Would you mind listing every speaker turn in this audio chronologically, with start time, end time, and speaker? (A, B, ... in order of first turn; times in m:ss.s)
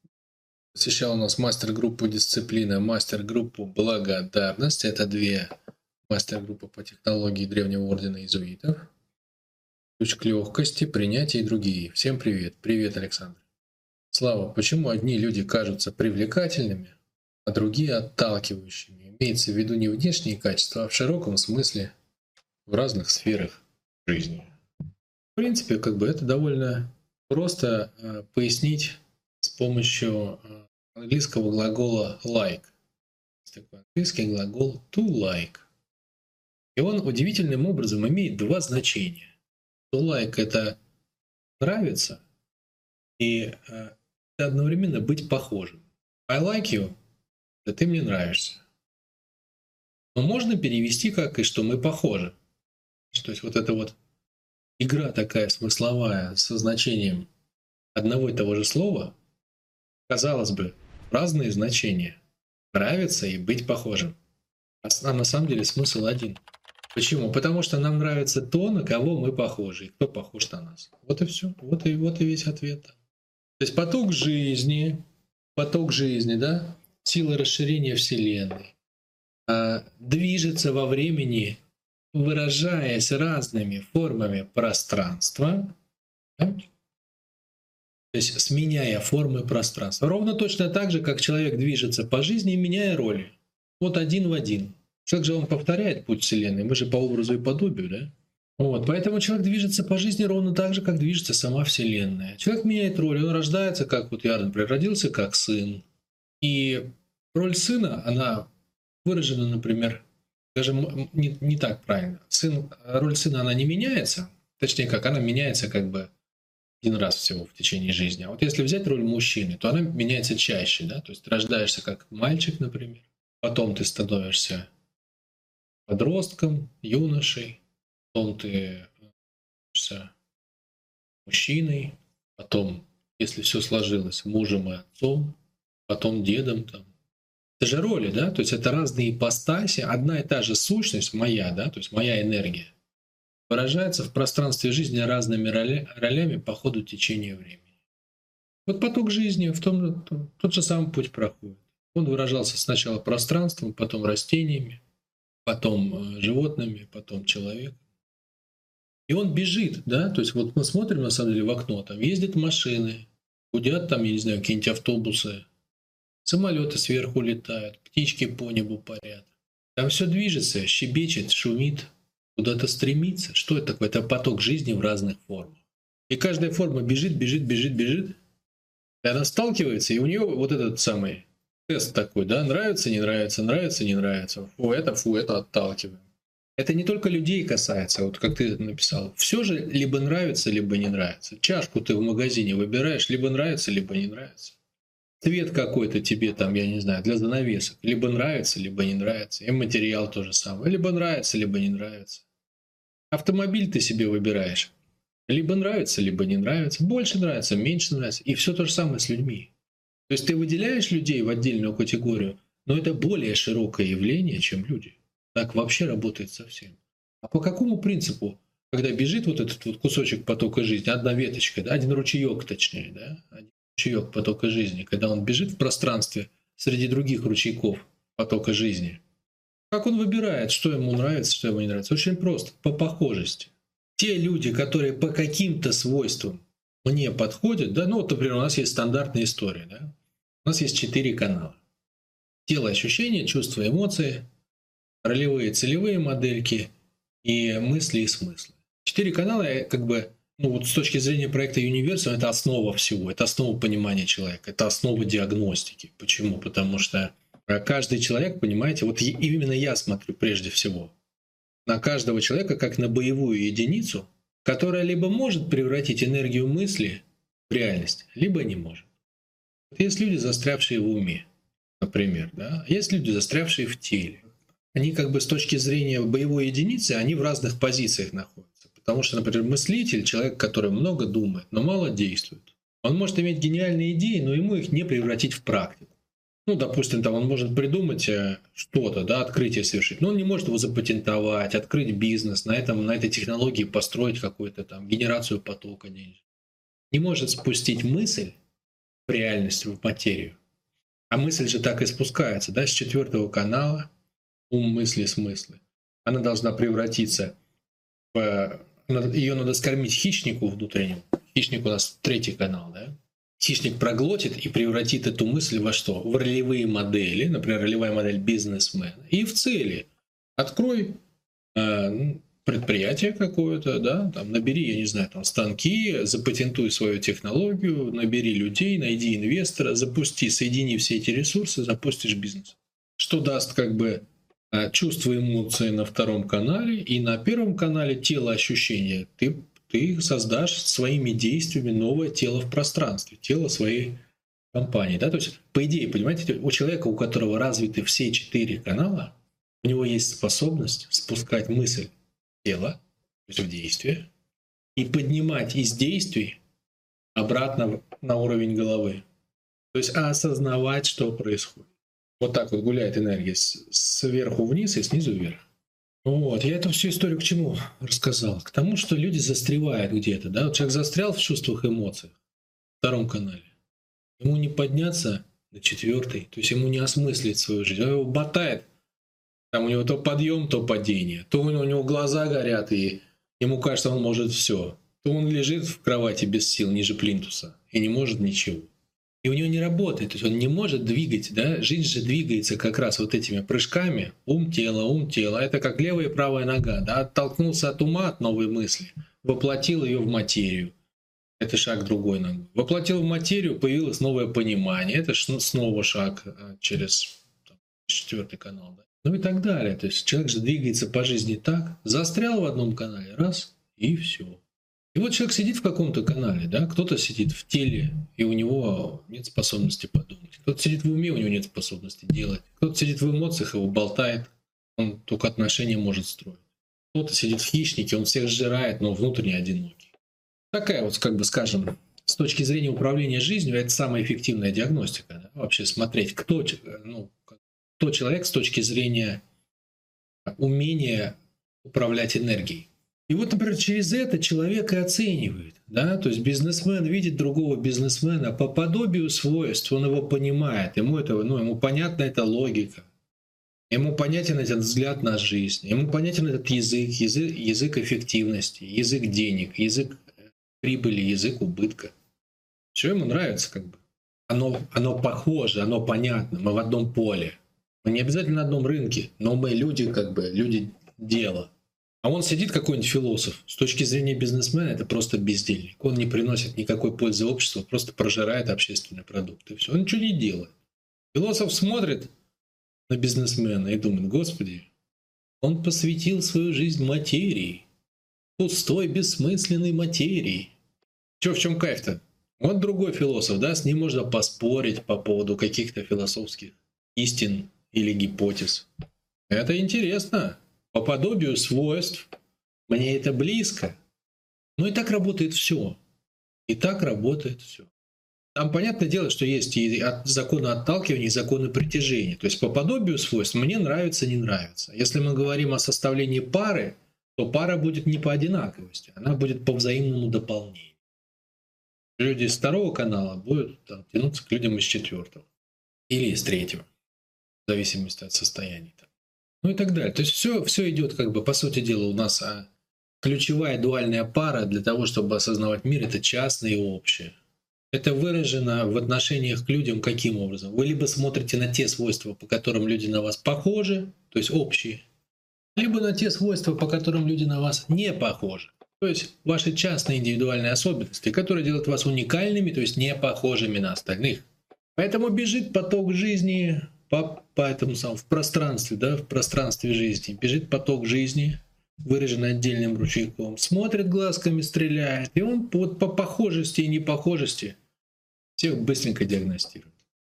0:00.7-0:05.5 A
0:06.1-0:08.9 A
0:10.0-0:13.4 A
0:14.1-0:21.9 A
0:22.7-0:24.5 A
0:25.4-0:32.7 A
0:33.4-0:35.7 A
0:36.8-0:39.3 A
0:39.9-0:40.8 A
0:41.6-0:42.2 A
0:43.2-0:46.9 A
0:47.6-0:48.6 A
0:50.2-0:52.4 A
0:53.1-0:54.0 A
0:54.8-0:57.3 A
0:58.0-0:59.2 A
1:00.1-1:02.2 A
1:02.7-1:04.2 A
1:04.8-1:06.4 A
1:06.9-1:13.0 A
1:13.6-1:15.0 A
1:15.6-1:18.7 A
1:19.5-1:21.6 A
1:22.1-1:25.8 A
1:26.4-1:26.7 A
1:28.1-1:45.8 A
1:46.4-1:48.5 A
1:49.0-1:50.0 A
1:50.6-1:56.1 A
1:56.8-2:04.7 A
2:05.9-2:07.6 A
2:08.1-2:08.9 A
2:09.7-2:10.1 A
2:11.3-2:15.4 A
2:15.9-2:16.9 A
2:17.6-2:22.7 A
2:23.5-2:27.7 A
2:28.7-2:34.8 A
2:35.4-2:37.8 A
2:39.1-2:45.5 A
2:46.2-2:58.2 A
2:59.0-3:06.0 A
3:06.6-3:14.6 A
3:15.2-3:22.2 A
3:23.1-3:24.7 A
3:25.3-3:29.5 A
3:30.1-3:49.0 A
3:49.7-4:01.6 A
4:02.5-4:04.3 A
4:05.0-4:06.7 A
4:07.2-4:20.9 A
4:21.7-4:28.9 A
4:29.7-4:31.3 A
4:31.8-4:56.2 A
4:56.9-4:58.4 A
4:59.1-5:00.4 A
5:01.1-5:03.9 A
5:04.5-5:07.4 A
5:08.1-5:21.0 A
5:21.6-5:44.0 A
5:44.5-5:51.9 A
5:52.4-5:54.1 A
5:54.8-5:56.4 A
5:57.2-5:59.0 A
5:59.7-6:01.7 A
6:02.2-6:05.4 A
6:06.0-6:12.2 A
6:12.8-6:13.5 A
6:14.2-6:18.7 A
6:19.5-6:28.7 A
6:29.2-6:40.7 A
6:41.4-6:47.2 A
6:47.8-6:54.4 A
6:54.9-7:09.9 A
7:10.5-7:19.2 A
7:20.3-7:32.9 A
7:33.7-7:40.1 A
7:40.6-7:41.9 A
7:42.7-8:00.5 A
8:01.1-8:02.1 A
8:02.9-8:04.7 A
8:05.4-8:07.7 A
8:08.4-8:10.5 A
8:11.2-8:18.7 A
8:19.3-8:22.1 A
8:22.7-8:23.8 A
8:24.6-8:25.8 A
8:26.5-8:27.7 A
8:28.4-8:40.8 A
8:42.0-8:45.3 A
8:45.9-8:46.7 A
8:47.5-8:48.9 A
8:49.4-8:52.5 A
8:53.0-8:57.2 A
8:57.7-9:04.8 A
9:05.6-9:27.6 A
9:28.4-9:29.7 A